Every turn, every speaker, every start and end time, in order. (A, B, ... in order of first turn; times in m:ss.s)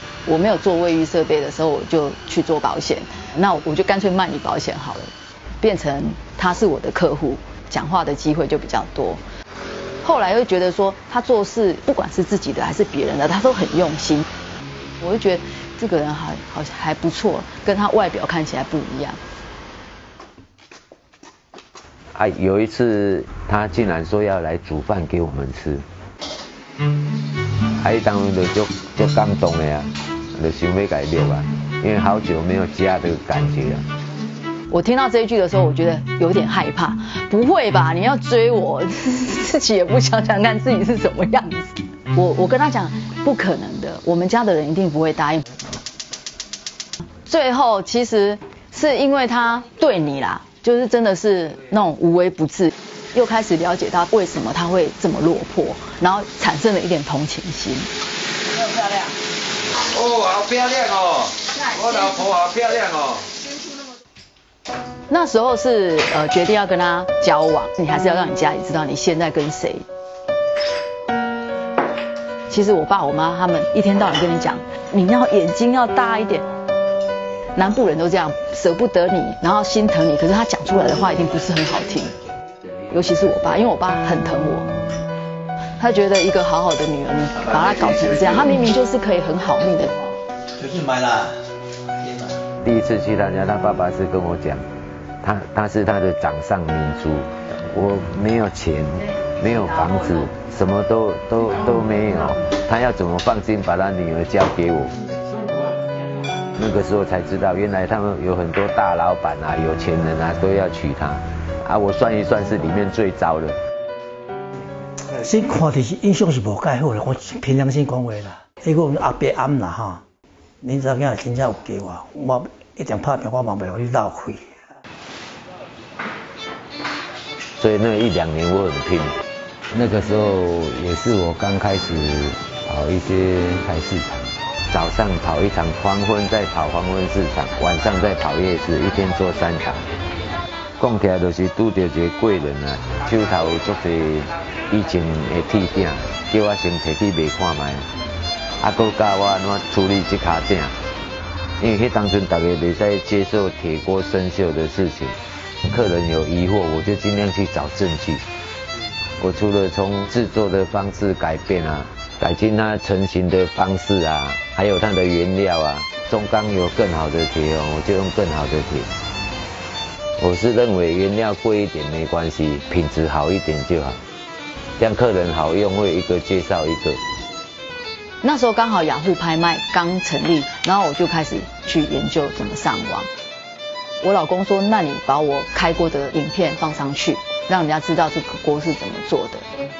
0:00.2-0:09.2 A
0:10.0-0:14.2 A
0:15.0-0:19.2 A
0:22.1-0:25.8 B
0:27.8-0:33.8 B
0:34.7-0:45.5 A
0:47.2-0:57.9 A
0:58.6-0:59.1 A
0:59.9-1:03.3 B
1:05.1-1:09.8 A
1:12.5-1:16.4 A
1:17.5-1:22.1 A
1:22.9-1:24.7 A
1:25.8-1:30.1 A
1:32.6-1:34.6 B
1:35.2-1:44.9 B
1:46.6-1:53.6 B
1:55.0-2:00.0 C
2:00.6-2:04.7 C
2:07.6-2:09.1 B
2:09.7-2:19.8 B
2:20.8-2:27.9 B
2:28.6-2:30.7 B
2:31.6-2:38.2 B
2:39.2-2:48.9 B
2:50.2-2:54.0 B
2:54.8-2:57.0 B
2:58.2-3:03.1 A
3:04.0-3:09.4 A